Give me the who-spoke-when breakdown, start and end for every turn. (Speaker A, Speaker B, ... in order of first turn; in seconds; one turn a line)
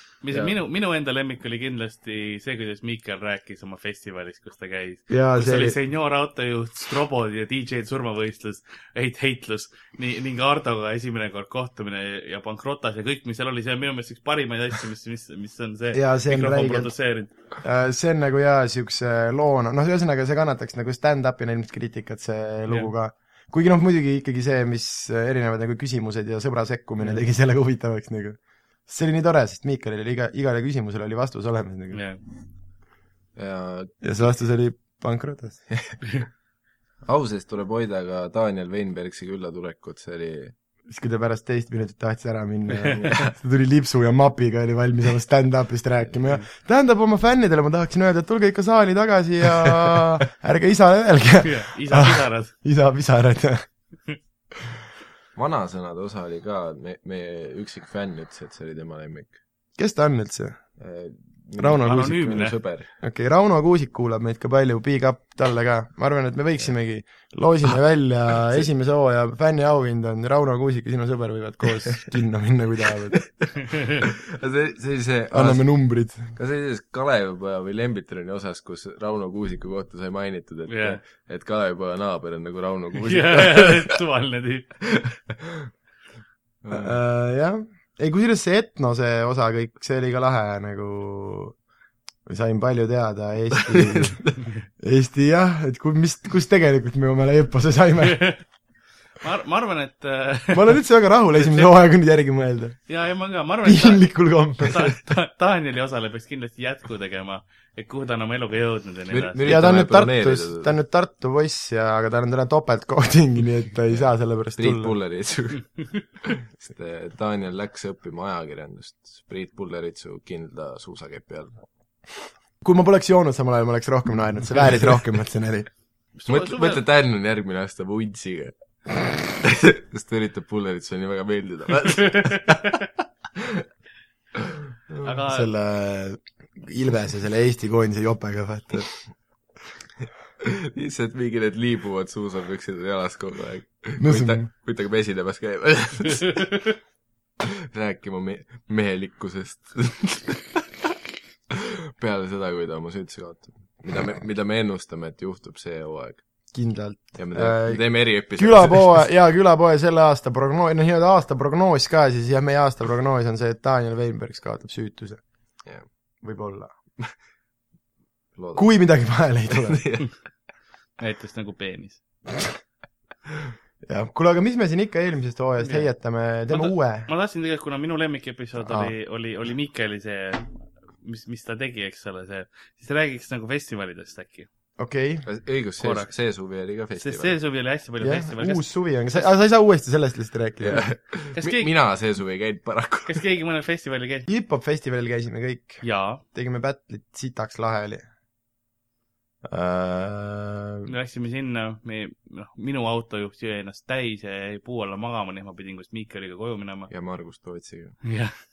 Speaker A: 0.2-17.3
Speaker B: 5.1-5.8
Speaker B: 15.9-16.9
Speaker B: 17.6-32.0
Speaker A: 31.9-32.2
Speaker C: 33.4-34.0
Speaker B: 34.0-35.6
Speaker C: 35.7-36.0
Speaker C: 37.0-40.5
Speaker B: 40.9-53.7
Speaker C: 42.9-43.3
Speaker A: 51.4-52.5
Speaker C: 55.4-59.4
Speaker B: 59.8-60.6
Speaker C: 60.8-62.9
Speaker B: 61.6-62.3
Speaker A: 61.8-62.5
Speaker B: 63.0-73.2
Speaker C: 74.0-75.8
Speaker B: 75.3-76.3
Speaker C: 76.3-84.0
Speaker A: 80.7-81.0
Speaker A: 83.0-84.7
Speaker C: 84.9-85.6
Speaker C: 86.6-87.0
Speaker B: 86.7-91.6
Speaker B: 92.2-98.2
Speaker C: 93.6-94.3
Speaker A: 98.0-98.4
Speaker A: 99.2-100.7
Speaker B: 100.5-102.8
Speaker A: 102.9-109.4
Speaker B: 103.6-105.0
Speaker C: 109.1-110.7
Speaker B: 109.4-114.9
Speaker C: 114.5-121.6
Speaker B: 122.6-125.7
Speaker A: 126.2-126.8
Speaker C: 126.3-132.8
Speaker C: 133.4-133.6
Speaker C: 134.3-135.1
Speaker A: 135.0-135.5
Speaker B: 135.3-138.9
Speaker C: 140.4-146.6
Speaker B: 144.0-144.5
Speaker A: 146.4-146.7
Speaker C: 147.4-150.6
Speaker C: 151.5-156.2
Speaker B: 156.5-165.2
Speaker C: 157.2-159.0
Speaker B: 166.2-166.7
Speaker C: 168.3-170.1
Speaker B: 168.5-169.8
Speaker A: 171.0-172.0
Speaker B: 173.8-177.1
Speaker A: 175.6-175.9
Speaker A: 176.5-184.5
Speaker B: 178.6-178.9
Speaker B: 184.8-185.2
Speaker C: 185.2-187.3
Speaker A: 185.8-186.1
Speaker A: 187.0-189.2
Speaker B: 188.0-190.8
Speaker C: 190.6-193.2
Speaker A: 191.3-191.7
Speaker A: 193.1-194.2
Speaker B: 194.3-198.1
Speaker A: 195.8-196.2
Speaker B: 199.4-200.9
Speaker A: 200.8-206.9
Speaker C: 206.9-208.1
Speaker A: 208.0-208.3